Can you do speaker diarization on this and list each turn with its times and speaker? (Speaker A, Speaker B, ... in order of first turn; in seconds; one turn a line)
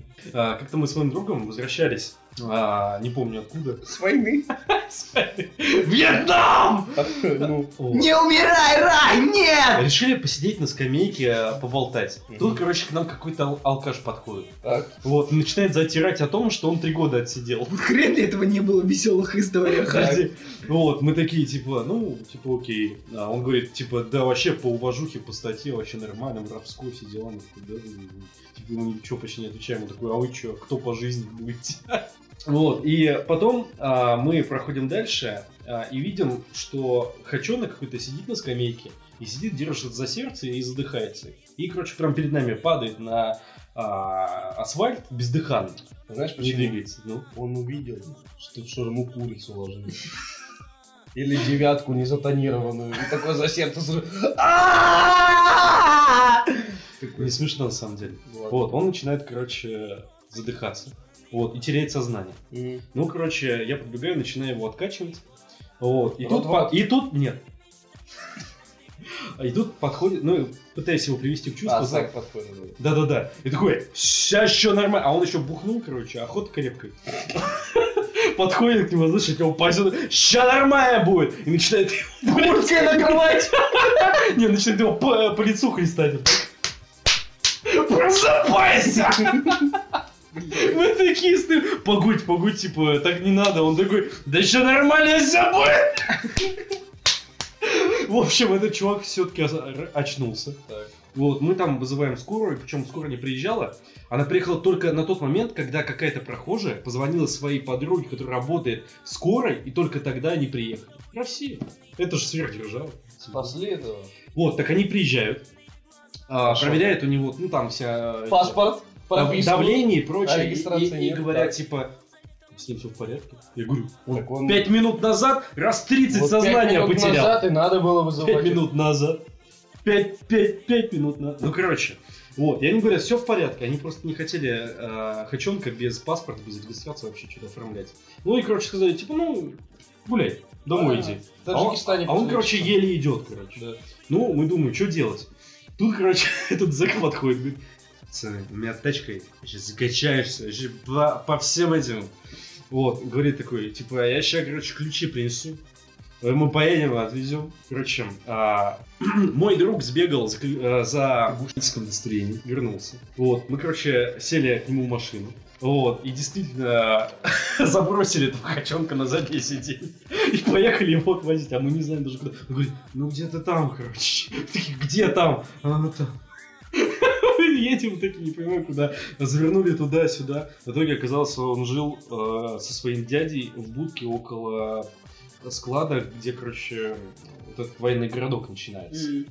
Speaker A: 0.3-3.8
Speaker B: 3.8-4.5
Speaker A: 4.6-8.1
Speaker B: 7.0-7.8
Speaker C: 7.9-9.9
Speaker A: 9.7-17.8
Speaker B: 12.3-12.6
Speaker B: 14.6-14.9
Speaker C: 17.7-20.2
Speaker A: 19.9-45.8
Speaker B: 19.9-20.2
Speaker B: 46.1-50.1
Speaker A: 46.4-47.3
Speaker B: 51.1-57.4
Speaker A: 57.2-62.4
Speaker B: 58.3-58.8
Speaker B: 62.5-62.8
Speaker A: 62.9-65.2
Speaker A: 65.8-67.4
Speaker B: 66.2-66.8
Speaker A: 69.4-72.1
Speaker B: 71.7-72.8
Speaker A: 72.8-86.5
Speaker B: 82.4-83.3
Speaker A: 87.7-89.8
Speaker C: 90.4-90.7
Speaker A: 90.5-96.6
Speaker A: 97.6-100.6
Speaker A: 101.1-113.6
Speaker B: 113.3-114.1
Speaker A: 114.3-115.5
Speaker A: 116.3-121.9
Speaker B: 116.4-117.0
Speaker B: 118.3-121.6
Speaker A: 122.5-127.5
Speaker B: 124.1-124.7
Speaker B: 126.1-128.7
Speaker A: 128.2-129.2
Speaker A: 129.8-152.1
Speaker B: 140.7-142.8
Speaker A: 152.7-155.6
Speaker A: 156.2-176.2
Speaker B: 161.3-161.5
Speaker A: 176.7-184.9
Speaker A: 185.4-189.1